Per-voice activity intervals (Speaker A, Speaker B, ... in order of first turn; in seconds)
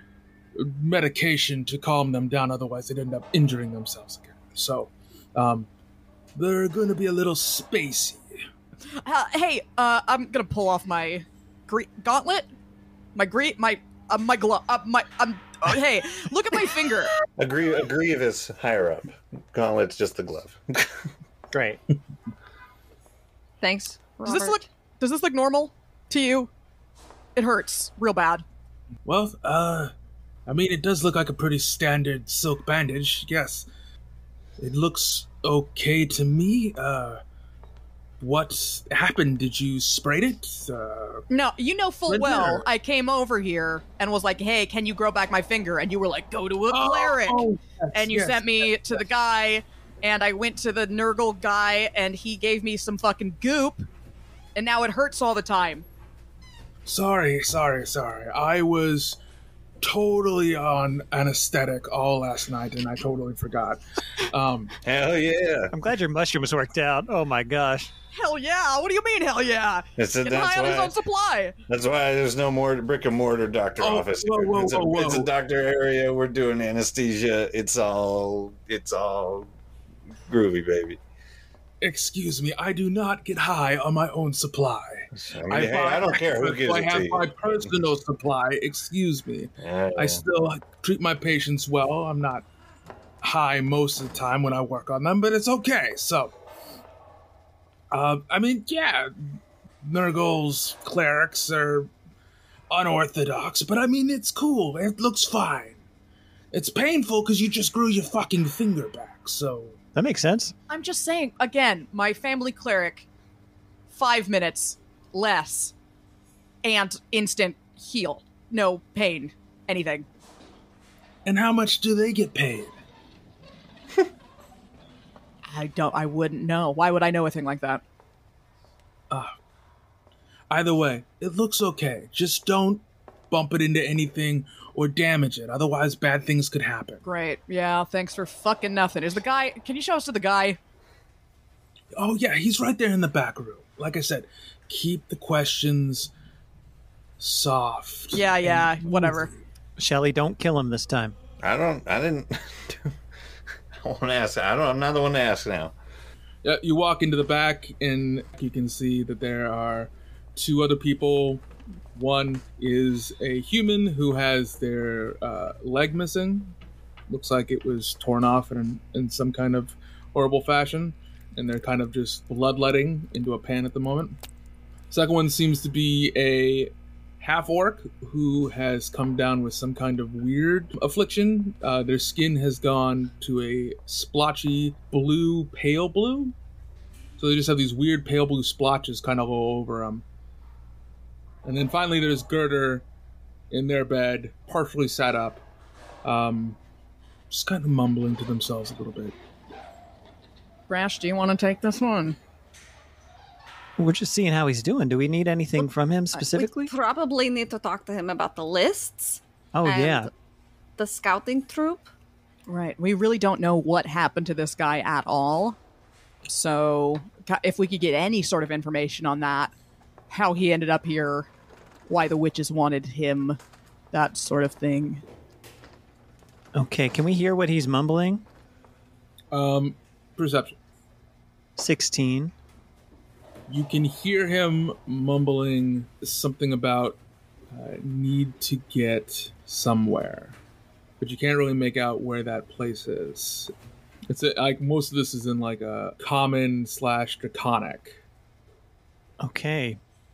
Speaker A: 0.6-5.7, 6.4-8.3, 29.1-29.9, 30.5-33.7, 34.6-37.2, 38.2-41.2, 42.1-42.6, 46.7-48.7, 56.9-59.2, 59.8-64.7, 73.8-75.3, 81.8-92.5, 93.2-96.3, 97.9-101.9, 102.7-105.8, 106.5-109.8, 121.2-122.8, 130.5-137.0, 141.9-146.1, 147.2-149.3, 156.4-166.5, 167.1-174.2, 174.9-186.3, 187.2-190.0, 191.4-192.8, 193.5-195.4, 196.0-196.6, 197.3-199.2, 229.3-230.6, 233.5-237.0, 237.5-240.4, 241.0-243.5, 244.1-248.0
Speaker B: 8.9-12.5, 13.2-17.1, 24.2-26.5, 27.4-28.4, 41.3-53.9, 54.5-55.9, 68.1-71.6, 110.7-113.1, 113.9-115.7, 116.6-120.1, 125.5-127.8, 137.0-140.6, 148.1-149.3, 200.7-202.2, 212.5-215.6, 216.3-219.5, 220.1-221.3, 221.9-223.4, 223.9-225.0
Speaker C: 17.4-20.9, 64.8-65.7, 70.0-71.0, 71.7-79.5, 80.3-81.0, 85.2-87.7, 89.6-90.2, 151.4-152.9, 153.8-155.8
Speaker D: 21.5-21.8, 65.7-67.9, 110.0-110.5, 149.8-151.2, 203.8-206.7, 209.6-210.1, 226.5-228.2, 231.6-232.3, 249.2-249.8
Speaker E: 23.6-24.6, 206.3-210.1, 210.8-211.9